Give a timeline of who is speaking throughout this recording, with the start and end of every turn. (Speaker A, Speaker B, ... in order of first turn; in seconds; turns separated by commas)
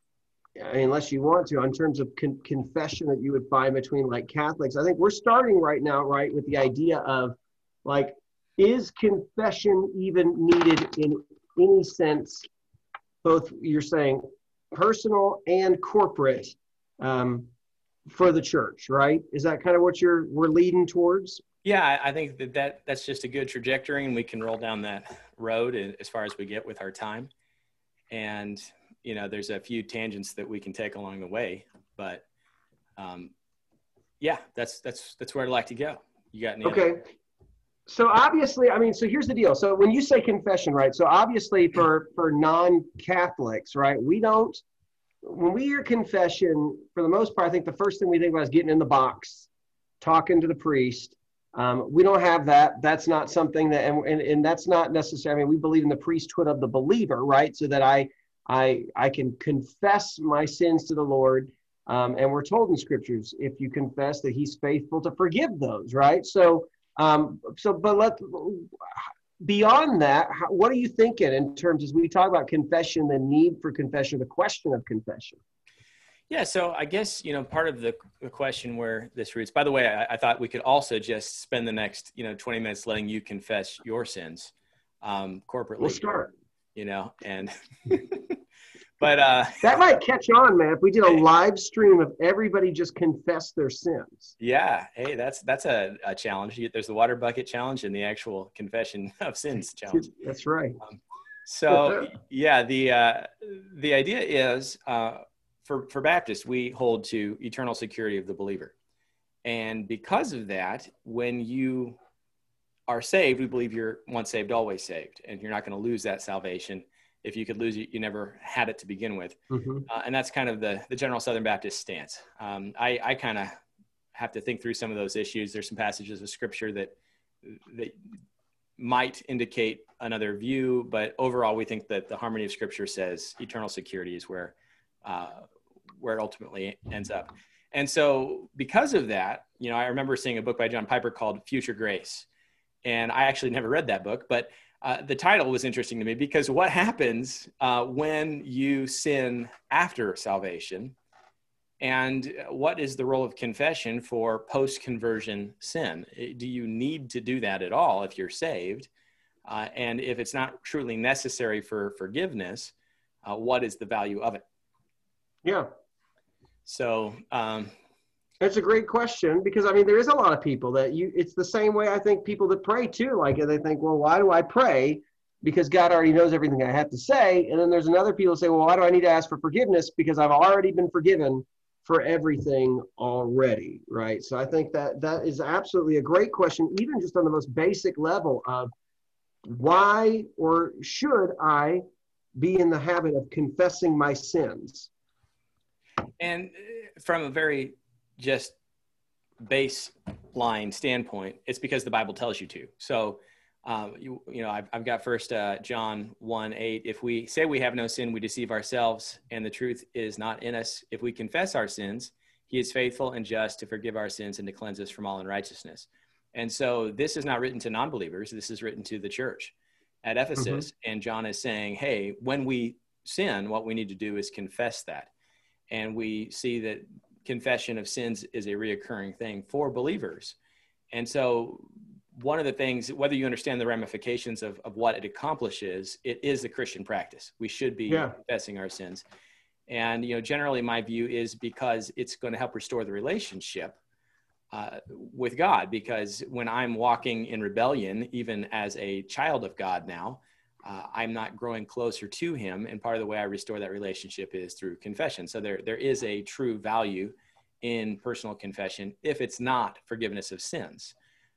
Speaker A: 0.6-12.5, Speaker A: 13.2-17.5, Speaker A: 18.1-21.4, Speaker B: 21.6-27.3, Speaker B: 28.1-32.2, Speaker B: 33.0-33.3, Speaker B: 34.2-36.9, Speaker A: 36.6-37.0, Speaker A: 37.9-44.6, Speaker A: 45.2-49.5, Speaker A: 50.0-75.4, Speaker B: 76.3-86.0, Speaker A: 85.8-86.3, Speaker B: 86.8-88.4, Speaker B: 89.0-89.8, Speaker A: 89.6-94.3, Speaker B: 94.4-100.1, Speaker A: 99.9-100.8, Speaker B: 100.9-108.7, Speaker A: 101.7-102.1, Speaker B: 109.5-112.0, Speaker B: 112.9-123.5, Speaker A: 119.5-119.8, Speaker B: 124.2-126.9, Speaker B: 127.4-128.0, Speaker B: 128.8-135.5, Speaker B: 136.0-142.3, Speaker B: 142.8-150.9, Speaker B: 151.8-158.9, Speaker B: 159.5-162.7, Speaker B: 163.2-164.4, Speaker B: 166.7-167.7, Speaker A: 168.4-188.7, Speaker A: 189.4-191.8, Speaker A: 192.4-194.9, Speaker B: 196.2-198.6, Speaker B: 199.4-225.1, Speaker A: 220.4-220.6, Speaker B: 225.7-230.4, Speaker B: 230.9-239.0, Speaker A: 237.9-238.2, Speaker B: 239.7-243.8, Speaker B: 244.5-260.9